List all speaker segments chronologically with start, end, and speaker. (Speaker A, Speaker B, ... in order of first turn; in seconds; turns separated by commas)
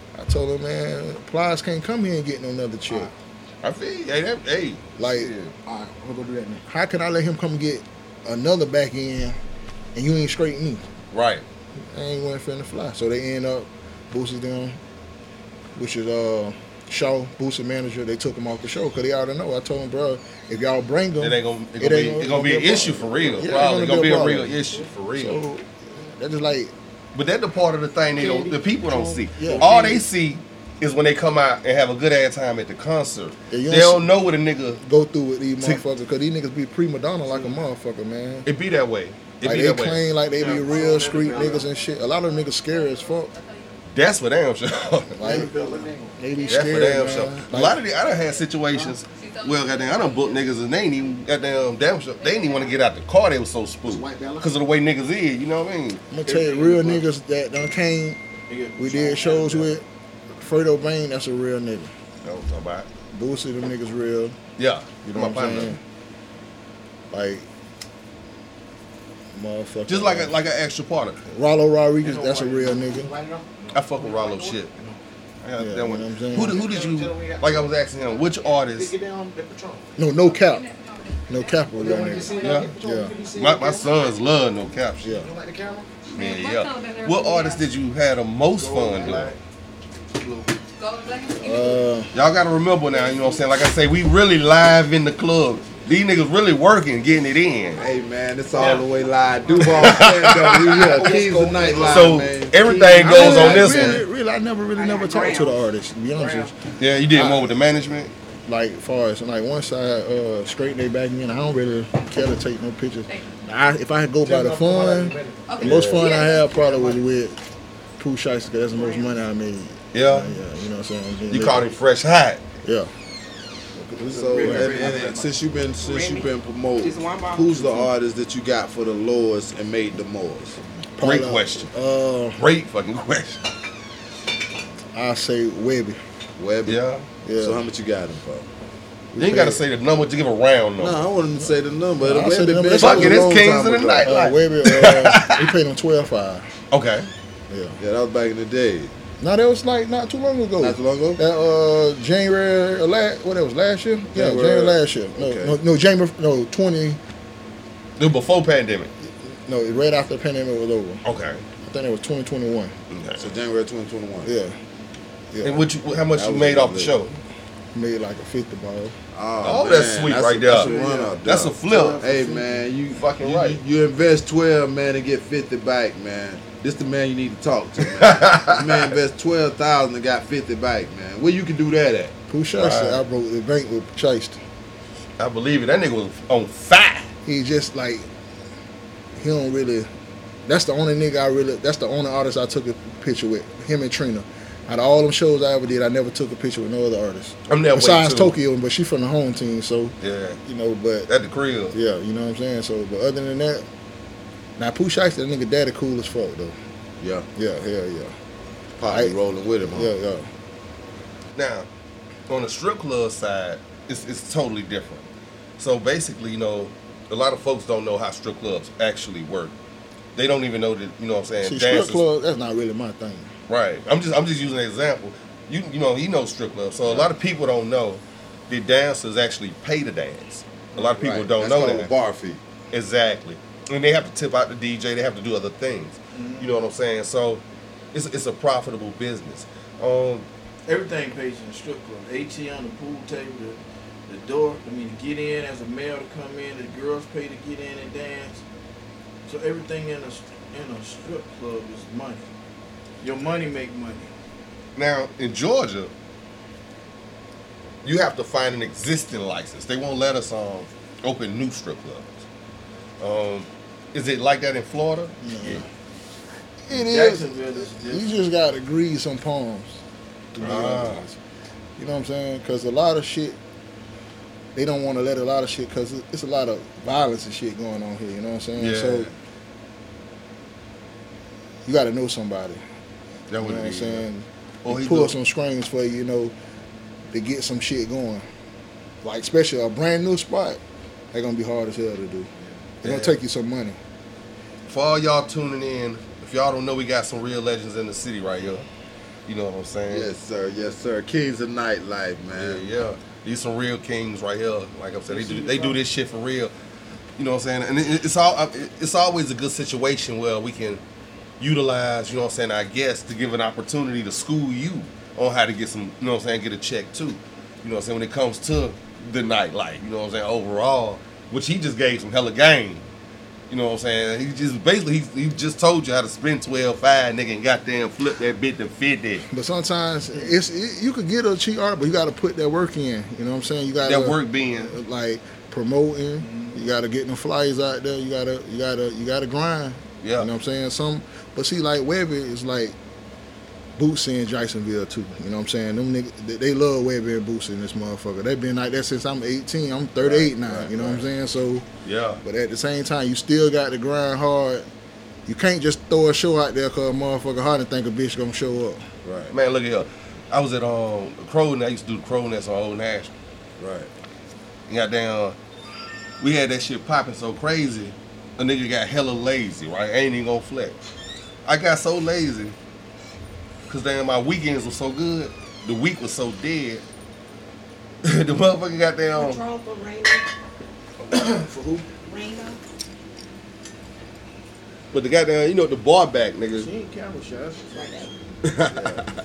Speaker A: 0.1-3.1, Speaker B: 3.6-5.5, Speaker A: 5.0-5.3, Speaker C: 5.7-6.6, Speaker A: 6.7-9.4, Speaker A: 9.9-10.8, Speaker B: 11.1-11.4, Speaker A: 11.8-14.8, Speaker A: 15.7-24.6, Speaker B: 21.2-25.4, Speaker A: 25.1-26.7, Speaker B: 27.1-34.8, Speaker C: 28.1-30.0, Speaker A: 29.4-29.7, Speaker A: 33.5-34.1, Speaker A: 34.8-38.5, Speaker B: 38.4-40.1, Speaker A: 39.4-43.3, Speaker D: 40.3-41.6, Speaker C: 40.4-41.6, Speaker E: 41.3-43.8, Speaker B: 43.9-45.4, Speaker A: 45.2-45.5, Speaker C: 45.2-46.2, Speaker D: 45.2-46.0, Speaker A: 46.2-47.8, Speaker E: 46.3-46.7, Speaker B: 46.5-56.0, Speaker E: 48.0-51.2, Speaker E: 52.2-52.9, Speaker C: 53.9-54.5, Speaker A: 56.1-58.2, Speaker D: 56.2-57.0, Speaker D: 58.5-59.8, Speaker A: 58.8-61.9, Speaker B: 62.2-62.9, Speaker A: 63.1-64.4, Speaker B: 64.6-65.8, Speaker A: 65.0-65.8, Speaker A: 67.1-67.5, Speaker A: 69.3-70.3, Speaker B: 69.9-71.2, Speaker A: 71.3-73.1, Speaker C: 72.0-74.6, Speaker B: 73.7-74.7, Speaker B: 75.4-78.9, Speaker A: 75.6-76.6, Speaker C: 76.3-79.9, Speaker A: 80.0-80.7, Speaker E: 80.2-82.2, Speaker A: 81.3-83.2, Speaker C: 81.7-83.9, Speaker B: 82.4-82.8, Speaker B: 83.3-85.1, Speaker A: 85.0-85.3, Speaker C: 85.1-85.9, Speaker E: 86.1-87.7, Speaker B: 86.1-89.3, Speaker D: 88.5-89.4, Speaker D: 90.1-90.5, Speaker E: 90.8-91.9, Speaker A: 91.4-92.1, Speaker B: 92.1-97.8, Speaker F: 97.8-104.0, Speaker C: 98.6-98.8, Speaker B: 99.5-101.0, Speaker C: 100.9-102.3, Speaker B: 101.7-104.0, Speaker A: 103.0-106.5, Speaker C: 103.2-103.7, Speaker C: 105.0-105.4, Speaker C: 106.1-106.5, Speaker B: 106.8-108.1, Speaker A: 107.1-107.5, Speaker A: 108.5-117.4, Speaker C: 114.2-115.5, Speaker E: 115.5-116.8, Speaker B: 115.6-116.1, Speaker A: 118.0-121.7, Speaker B: 119.9-120.4, Speaker B: 121.3-122.4, Speaker A: 122.6-122.9, Speaker A: 123.8-125.0, Speaker F: 124.0-130.6, Speaker D: 124.1-125.3, Speaker A: 130.9-132.4, Speaker B: 131.0-131.7, Speaker B: 132.4-133.5, Speaker A: 134.9-136.0, Speaker F: 136.4-136.8, Speaker B: 136.7-137.0, Speaker A: 137.2-137.7, Speaker F: 137.4-138.5, Speaker A: 139.1-139.6, Speaker B: 139.2-141.0, Speaker F: 140.8-144.3, Speaker A: 141.3-146.5, Speaker B: 142.8-145.5, Speaker B: 146.7-147.1, Speaker A: 147.5-147.8, Speaker F: 147.8-148.9, Speaker A: 149.2-157.0, Speaker F: 150.6-151.2, Speaker F: 154.1-155.6, Speaker B: 158.0-158.9, Speaker A: 159.2-161.0, Speaker B: 161.0-161.4, Speaker A: 161.6-162.7, Speaker B: 162.9-163.3, Speaker F: 163.2-164.3, Speaker A: 164.2-164.6, Speaker A: 165.3-165.6, Speaker B: 165.4-167.2, Speaker F: 166.1-166.9, Speaker A: 167.7-168.9, Speaker F: 169.1-182.1, Speaker B: 169.4-172.1, Speaker D: 170.5-171.2, Speaker C: 171.7-172.6, Speaker B: 172.9-173.6, Speaker B: 177.8-178.9, Speaker A: 182.3-184.4, Speaker B: 182.6-183.0, Speaker B: 185.2-187.1, Speaker A: 187.2-188.1, Speaker A: 189.2-189.9, Speaker A: 190.4-201.1, Speaker B: 197.5-198.3, Speaker B: 200.0-200.4, Speaker B: 201.1-201.8, Speaker A: 201.7-203.7, Speaker A: 204.6-206.6, Speaker F: 207.0-207.3, Speaker A: 207.3-208.1, Speaker F: 208.8-209.9, Speaker A: 208.9-210.3, Speaker B: 211.3-211.7, Speaker B: 212.3-215.0, Speaker B: 215.6-219.5, Speaker B: 220.2-222.0, Speaker A: 221.4-223.3, Speaker B: 223.5-231.9, Speaker F: 230.8-232.4, Speaker B: 232.7-237.4, Speaker D: 236.1-236.6, Speaker B: 237.9-240.3, Speaker D: 240.7-248.4, Speaker D: 249.2-252.3, Speaker D: 253.0-254.1, Speaker B: 254.8-255.9, Speaker B: 257.8-262.2, Speaker B: 263.0-265.6, Speaker A: 265.2-265.7, Speaker A: 266.6-269.8, Speaker D: 266.7-268.2, Speaker A: 270.3-271.1, Speaker B: 270.4-271.0, Speaker A: 271.8-273.4, Speaker A: 274.5-279.1, Speaker B: 278.6-279.1, Speaker A: 281.6-282.6, Speaker B: 283.3-284.1, Speaker A: 283.4-286.3, Speaker B: 284.6-285.1, Speaker A: 287.1-288.2, Speaker A: 289.0-290.6, Speaker A: 291.1-292.3, Speaker B: 292.8-293.1, Speaker A: 292.8-293.8, Speaker B: 294.7-298.7, Speaker B: 299.3-300.1, Speaker F: 299.9-302.7, Speaker B: 302.3-306.5, Speaker D: 305.1-305.8, Speaker B: 307.2-310.8, Speaker B: 311.4-322.9, Speaker B: 323.5-329.2, Speaker A: 329.3-342.8, Speaker B: 333.8-334.8, Speaker D: 336.2-336.6, Speaker B: 340.0-340.3, Speaker A: 343.8-351.7, Speaker F: 350.0-351.1, Speaker B: 351.8-352.2, Speaker A: 352.2-354.7, Speaker A: 355.2-358.9, Speaker F: 359.0-359.3, Speaker B: 359.3-363.1, Speaker F: 363.6-363.9, Speaker B: 364.7-365.4, Speaker B: 366.2-370.7, Speaker B: 371.4-372.6, Speaker B: 373.7-376.8, Speaker B: 378.0-379.4, Speaker D: 381.0-381.9, Speaker B: 384.9-386.7, Speaker D: 386.5-388.1, Speaker B: 388.4-388.9, Speaker F: 388.7-389.0